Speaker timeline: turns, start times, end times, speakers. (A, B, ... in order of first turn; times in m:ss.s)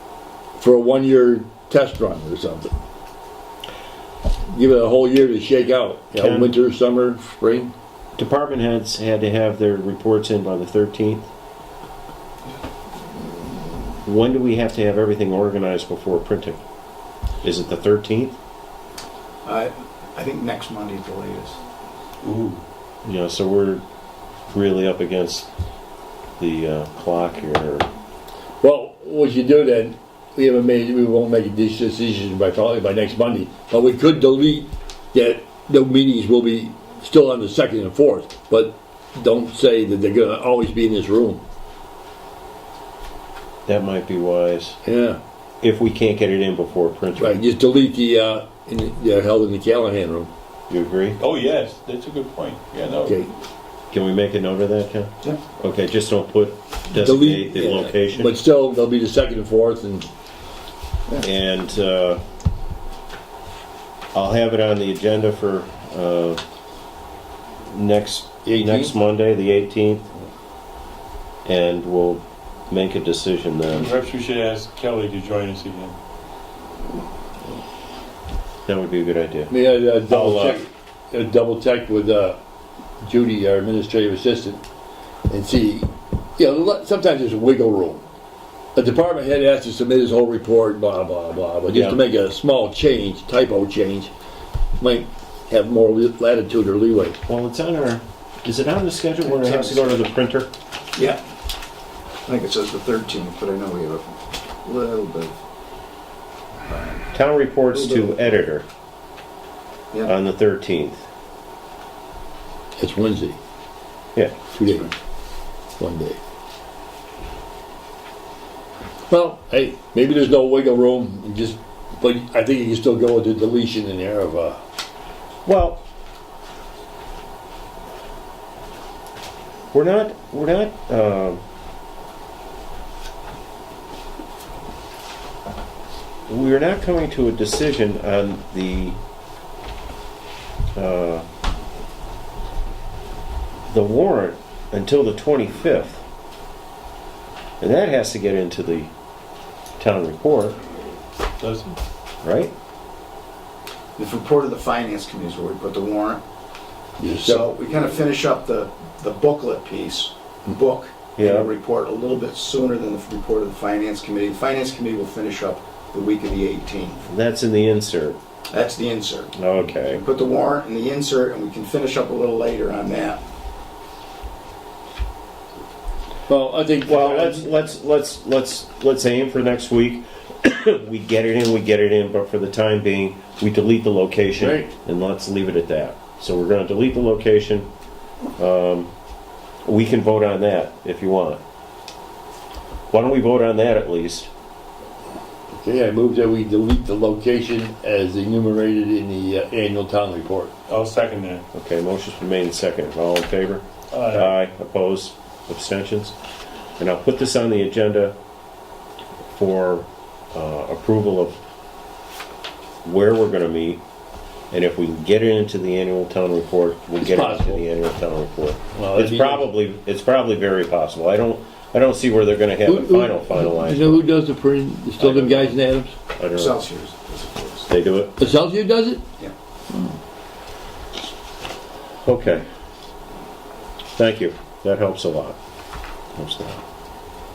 0:00.6-0:02.7 A
0:04.5-0:07.7 A
0:06.2-0:06.5 B
0:08.2-0:11.3 B
0:14.0-0:16.6 B
0:17.4-0:18.4 B
0:19.4-0:21.6 C
0:22.2-0:22.6 D
0:23.0-0:23.8 B
0:24.5-0:25.5 B
0:26.4-0:27.9 B
0:28.6-0:41.4 A
0:43.6-0:44.8 B
0:44.8-0:45.2 A
0:45.6-0:47.4 B
0:47.2-0:50.3 A
0:50.7-0:51.2 B
0:51.2-0:53.2 D
0:53.0-0:53.3 A
0:53.9-0:58.4 B
0:56.9-1:00.1 A
1:01.2-1:02.2 B
1:04.1-1:06.4 B
1:07.6-1:10.1 B
1:08.4-1:08.9 A
1:11.4-1:13.9 B
1:13.7-1:15.9 D
1:18.6-1:19.5 B
1:19.5-1:22.4 A
1:20.1-1:20.6 B
1:23.0-1:24.6 A
1:25.3-1:28.0 A
1:28.7-1:34.1 A
1:31.7-1:32.0 B
1:34.8-1:37.2 A
1:37.3-1:40.5 B
1:39.2-1:40.0 C
1:40.9-1:41.2 C
1:42.2-1:45.4 C
1:46.7-1:47.1 C
1:47.1-1:48.6 B
1:47.7-1:48.2 C
1:50.0-1:51.0 B
1:52.8-1:53.4 A
1:54.5-1:54.9 A
1:55.8-1:56.2 A
1:59.1-2:04.6 A
2:05.4-2:05.8 B
2:09.7-2:11.4 B
2:16.3-2:19.0 B
2:20.8-2:21.2 B
2:23.7-2:26.0 B
2:27.6-2:28.9 B
2:29.8-2:30.6 B
2:31.4-2:31.8 D
2:32.2-2:32.5 B
2:34.0-2:36.2 C
2:37.0-2:37.4 A
2:37.2-2:47.0 C
2:41.2-2:41.5 B
2:47.0-2:48.2 B
2:48.5-2:49.3 C
2:49.4-2:50.0 B
2:49.9-2:53.2 C
2:56.3-2:57.5 A
2:56.8-3:07.7 B
3:04.4-3:04.7 A
3:08.4-3:08.9 B
3:09.6-3:11.4 B
3:12.9-3:14.3 B
3:15.5-3:20.5 A
3:20.7-3:21.4 D
3:21.5-3:26.1 B
3:23.9-3:24.3 D
3:26.8-3:28.2 B
3:29.3-3:31.3 B
3:32.8-3:33.8 B
3:34.5-3:44.1 B
3:37.0-3:37.6 A
3:38.8-3:39.4 A
3:42.6-3:45.9 A
3:45.0-3:45.6 B
3:46.2-3:46.6 B
3:46.4-3:47.7 C
3:47.7-3:48.3 B
3:48.2-3:49.0 A
3:52.0-3:52.4 B
3:54.0-3:55.4 B
3:56.2-3:56.6 B